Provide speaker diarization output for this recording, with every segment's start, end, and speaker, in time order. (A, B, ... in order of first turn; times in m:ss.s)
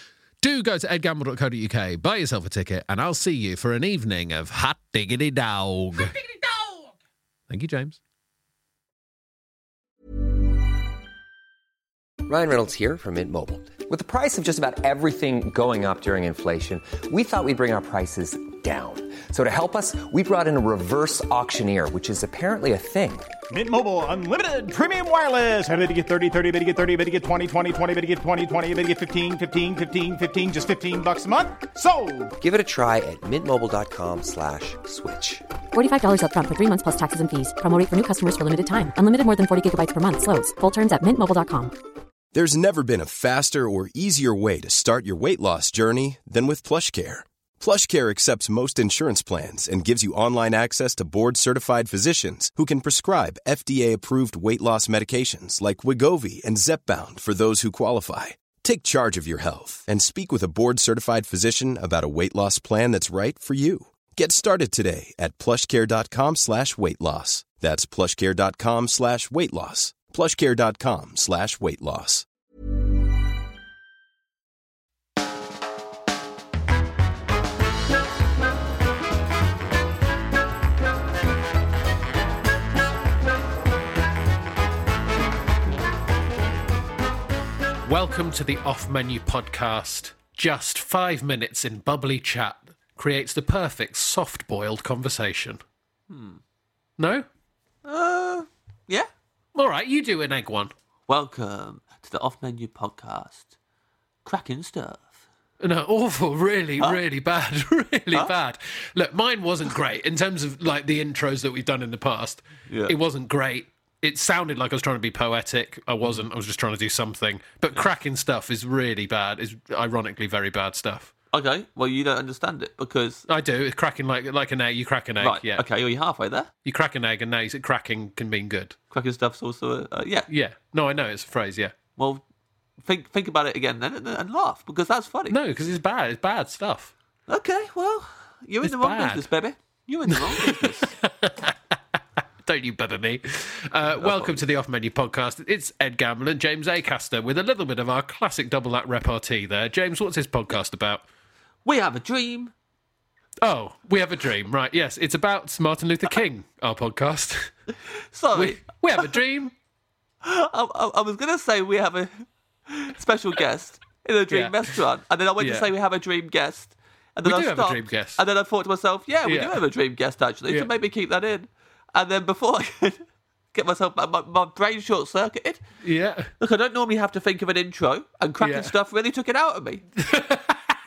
0:00.4-0:06.2 A
0:07.5-0:08.0 A
0:12.3-0:23.3 B
0:23.5-0:32.3 C
0:32.4-0:35.5 B
0:35.7-0:41.7 D
0:42.3-1:12.3 E
1:27.8-1:35.6 A
1:36.1-1:36.4 F
1:37.0-1:37.3 A
1:37.8-1:39.1 F
1:39.6-1:40.7 A
1:41.1-1:43.5 F
1:44.2-1:45.2 F
1:45.6-2:01.1 A
1:52.7-1:52.9 F
2:01.3-2:03.2 F
2:03.3-2:05.6 A
2:05.2-2:06.5 F
2:06.6-2:08.8 A
2:08.9-2:10.3 F
2:10.3-2:11.7 A
2:12.0-2:12.2 F
2:12.8-2:15.4 F
2:15.3-2:16.9 A
2:17.3-2:20.9 F
2:18.6-2:19.3 A
2:20.1-2:21.8 A
2:22.4-2:31.0 A
2:24.0-2:24.4 F
2:31.6-2:32.5 F
2:33.4-2:37.5 A
2:38.1-2:39.2 F
2:38.3-2:39.5 A
2:40.2-2:53.0 F
2:44.3-2:44.6 A
2:45.4-2:45.7 A
2:47.2-2:48.2 A
2:49.3-2:49.6 A
2:53.5-2:55.6 F
2:55.8-2:56.3 A
2:56.4-2:59.9 F
2:58.4-2:58.7 A
3:00.0-3:00.6 A